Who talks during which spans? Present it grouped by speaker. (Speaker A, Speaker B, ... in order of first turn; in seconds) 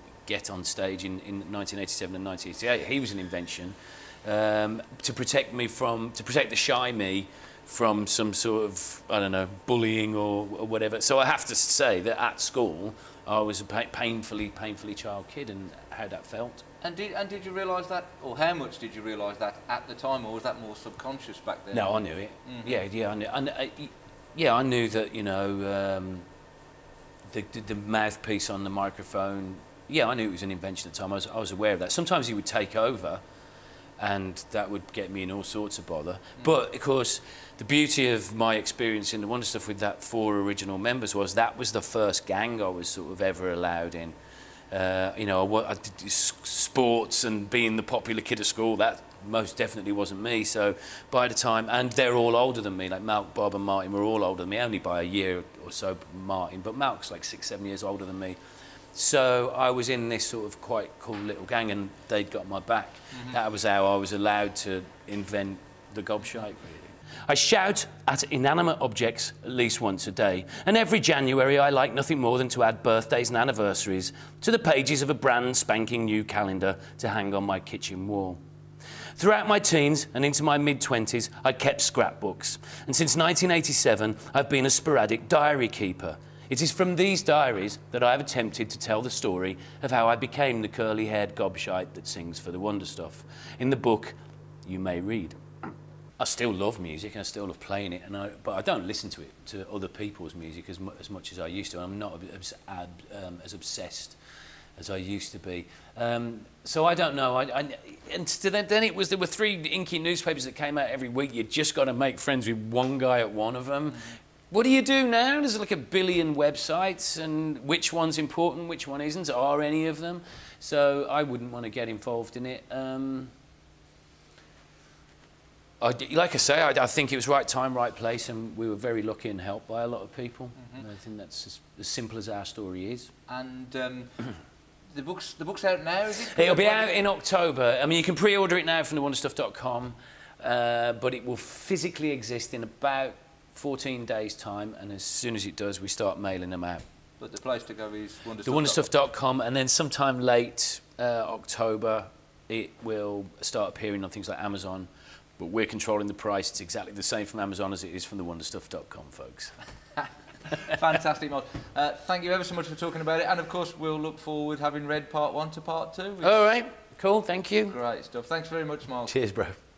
Speaker A: 0.2-16.6, 21.7-26.2, 27.3-33.2, 34.0-44.1, 44.7-58.4, 58.9-78.4, 79.2-95.4, 96.2-104.2, 104.8-123.3, 125.8-133.1, 136.3-146.8, 148.4-159.5, 166.2-167.8, 169.1-169.6
Speaker B: 16.8-22.8, 133.3-134.1, 134.9-137.0, 147.2-148.9, 160.6-166.4, 167.7-169.1